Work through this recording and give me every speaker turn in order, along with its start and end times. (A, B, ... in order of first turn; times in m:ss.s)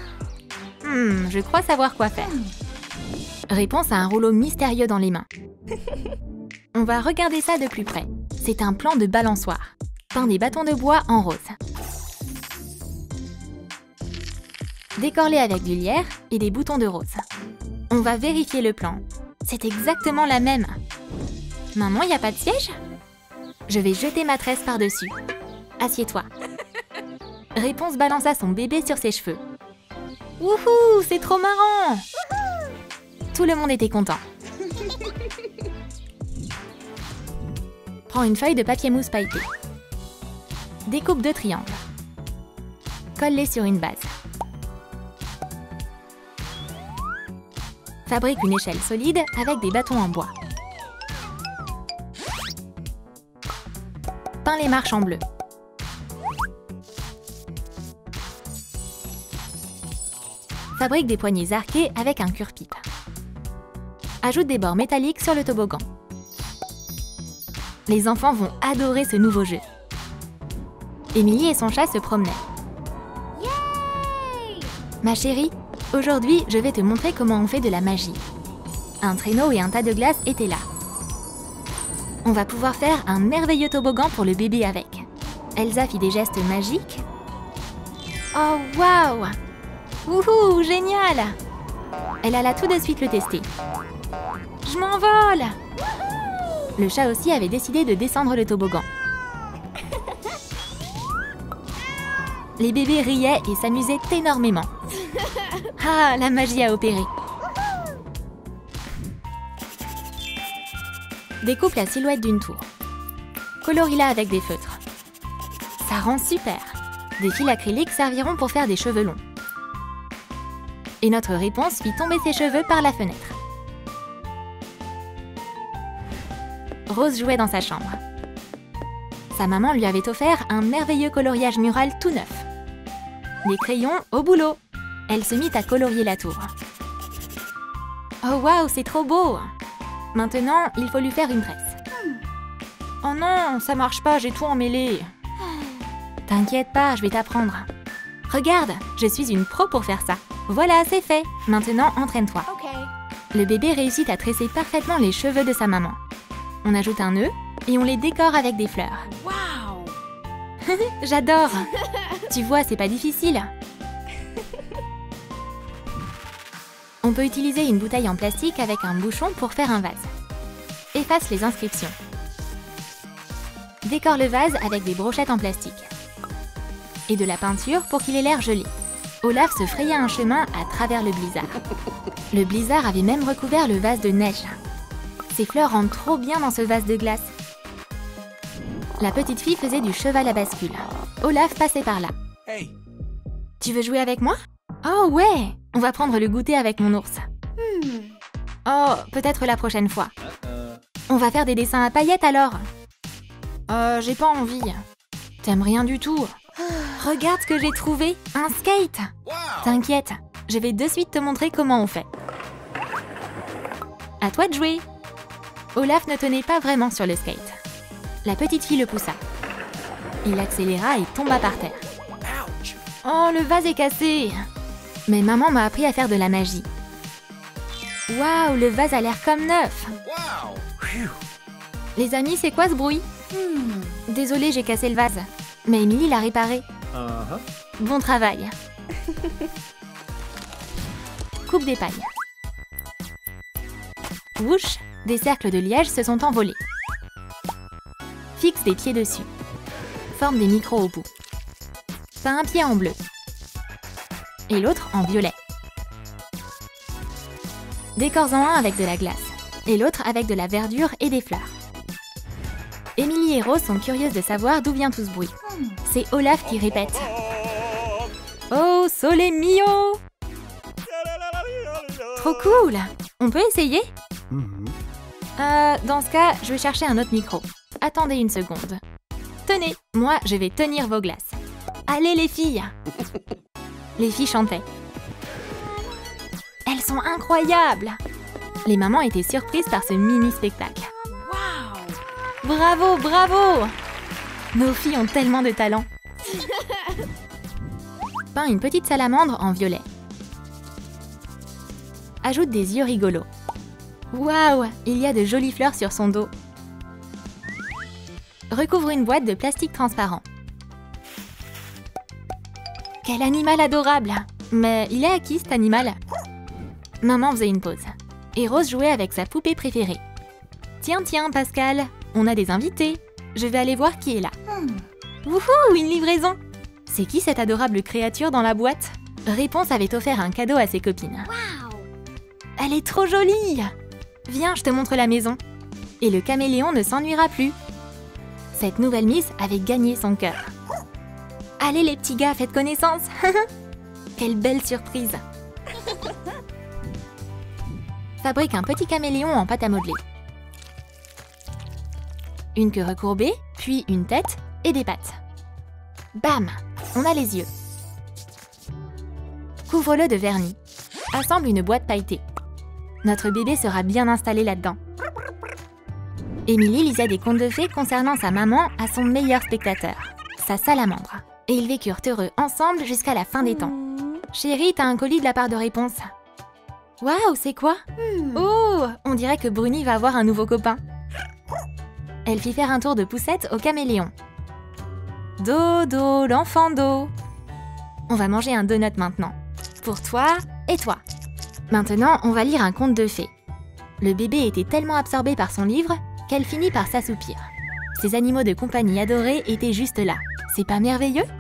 0:00.8-0:02.4 A
0:03.5-0:05.3 A
0:06.7-0:11.6 A
0:15.0-0:17.2 A
0:17.9-0:20.8 A
0:21.7-0:22.8 A
0:23.7-0:25.2 A
0:25.8-0:26.3 A
0:27.6-0:29.4 A
0:30.4-0:32.0 A
0:33.3-0:34.2 A
0:38.1-0:39.5 A
0:40.9-0:41.8 A
0:43.2-0:44.1 A
0:48.1-0:50.3 A
0:54.4-0:55.2 A
1:00.8-1:02.8 A
1:04.2-1:05.8 A
1:07.9-1:09.6 A
1:11.1-1:12.4 A
1:13.4-1:14.7 B
1:15.0-1:18.2 A
1:19.0-1:20.7 A
1:22.2-1:27.0 A
1:28.3-1:29.4 A
1:30.1-1:31.4 A
1:32.2-1:33.5 A
1:34.6-1:35.6 A
1:36.8-1:38.9 A
1:42.6-1:44.7 A
1:45.8-1:47.1 A
1:51.4-1:52.7 A
1:53.6-1:54.8 A
1:55.8-1:59.2 A
2:01.0-2:03.4 A
2:06.9-2:08.0 A
2:09.3-2:12.5 A
2:13.4-2:16.5 A
2:18.2-2:19.5 A
2:20.1-2:21.8 A
2:23.0-2:25.1 A
2:25.5-2:25.8 B
2:26.3-2:27.7 A
2:28.3-2:32.5 A
2:32.5-2:32.9 B
2:33.3-2:36.0 A
2:36.6-2:39.1 A
2:39.1-2:40.0 B
2:40.6-2:43.5 A
2:41.7-2:42.2 B
2:47.0-2:50.1 A
2:50.9-2:52.0 A
2:53.8-2:55.9 A
2:57.1-2:58.7 A
2:59.2-3:01.6 A
3:02.3-3:04.6 A
3:05.3-3:07.3 A
3:09.0-3:12.1 A
3:12.5-3:12.7 C
3:13.6-3:17.3 A
3:17.6-3:18.2 B
3:18.7-3:20.1 A
3:20.3-3:20.8 C
3:21.1-3:22.7 A
3:23.7-3:24.8 A
3:25.4-3:26.4 A
3:26.9-3:32.1 A
3:34.2-3:34.9 A
3:35.8-3:37.6 A
3:38.2-3:39.2 A
3:40.2-3:41.8 A
3:42.3-3:42.7 C
3:43.0-3:44.5 A
3:45.1-3:46.7 A
3:48.1-3:49.9 A
3:50.1-3:51.1 C
3:52.0-3:53.1 A
3:53.3-3:54.0 B
3:54.1-3:56.6 A
3:56.9-3:57.4 C
3:57.8-3:58.5 A
4:01.5-4:02.1 A
4:04.4-4:06.6 A
4:08.4-4:09.3 A
4:10.2-4:11.1 A
4:12.2-4:13.0 A
4:14.5-4:15.4 A
4:18.0-4:21.5 A
4:23.0-4:25.3 A
4:25.4-4:25.8 B
4:25.8-4:27.2 A
4:28.5-4:30.0 A
4:32.1-4:33.9 A
4:34.3-4:34.8 C
4:35.4-4:38.8 A
4:39.5-4:42.7 A
4:44.0-4:44.6 A
4:46.7-4:48.0 A
4:48.6-4:50.9 A
4:51.1-4:52.0 B
4:52.4-4:53.7 A
4:54.5-4:55.9 A
4:56.3-4:57.0 B
4:58.3-4:59.8 A
5:02.2-5:03.3 A
5:04.1-5:06.3 A
5:08.5-5:10.2 A
5:13.0-5:16.0 A
5:17.0-5:20.0 A
5:20.8-5:24.4 A
5:24.5-5:24.9 B
5:25.2-5:31.3 A
5:31.3-5:31.9 B
5:32.6-5:33.7 A
5:34.3-5:35.4 A
5:36.0-5:37.6 A
5:38.5-5:40.5 A
5:41.6-5:43.5 A
5:44.2-5:45.2 A
5:48.2-5:50.0 A
5:52.6-5:55.2 A
5:56.2-5:57.5 A
5:59.7-6:00.6 A
6:01.1-6:02.2 A
6:03.0-6:04.8 A
6:06.5-6:13.8 A
6:13.4-6:14.2 B
6:14.3-6:16.1 A
6:17.0-6:17.8 A
6:18.0-6:18.5 B
6:18.3-6:20.8 A
6:22.2-6:24.1 A
6:25.4-6:27.1 A
6:28.1-6:31.0 A
6:31.7-6:33.3 A
6:34.0-6:41.3 A